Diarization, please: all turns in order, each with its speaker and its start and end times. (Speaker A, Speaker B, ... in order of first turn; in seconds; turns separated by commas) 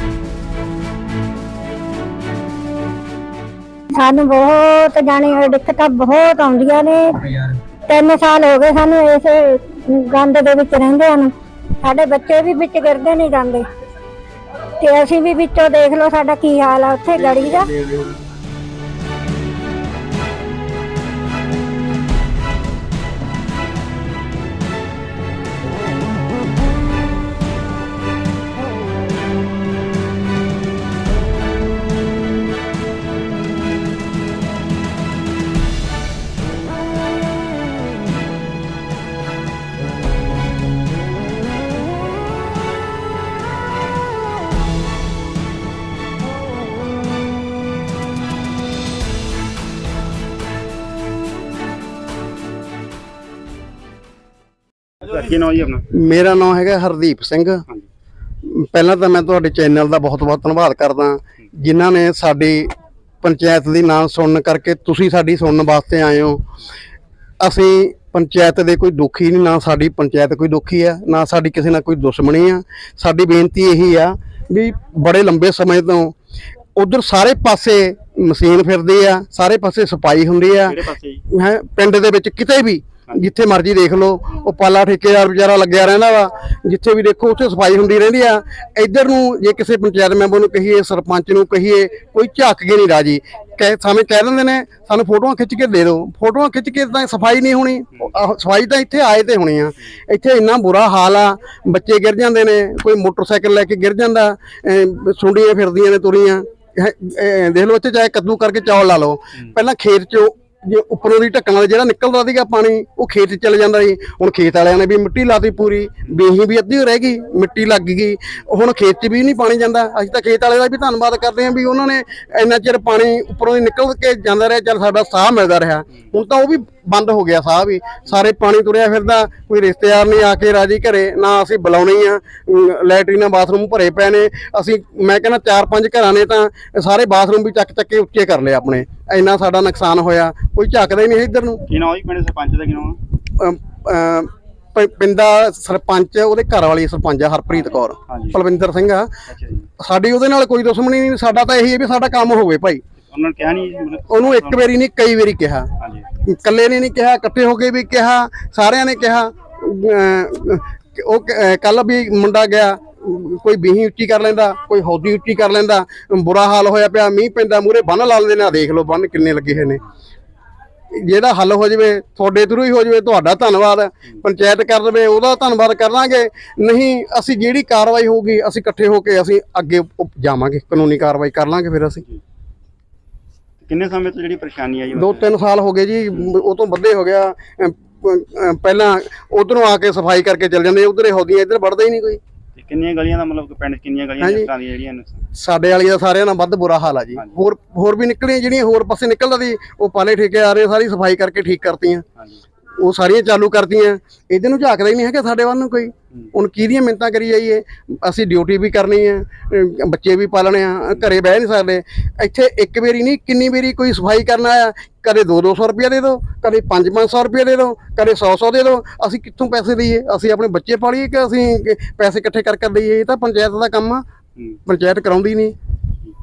Speaker A: 3.9-11.3, Speaker A: 11.8-13.6, Speaker A: 14.8-17.7, Speaker B: 55.0-55.9, Speaker C: 55.9-57.6, Speaker C: 58.4-62.7, Speaker C: 63.2-66.5, Speaker C: 67.4-76.2, Speaker C: 76.8-141.6, Speaker B: 80.7-81.2, Speaker B: 141.7-143.0, Speaker C: 143.3-149.1, Speaker B: 148.1-148.4, Speaker B: 149.3-149.7, Speaker C: 149.8-152.8, Speaker B: 153.1-154.7, Speaker C: 154.1-169.8, Speaker B: 155.8-156.1, Speaker C: 170.9-182.0, Speaker B: 183.6-185.3, Speaker C: 184.9-192.2, Speaker B: 192.6-195.2, Speaker C: 194.2-194.5, Speaker C: 195.3-202.1, Speaker B: 197.2-197.4, Speaker C: 202.8-224.0, Speaker C: 224.7-225.6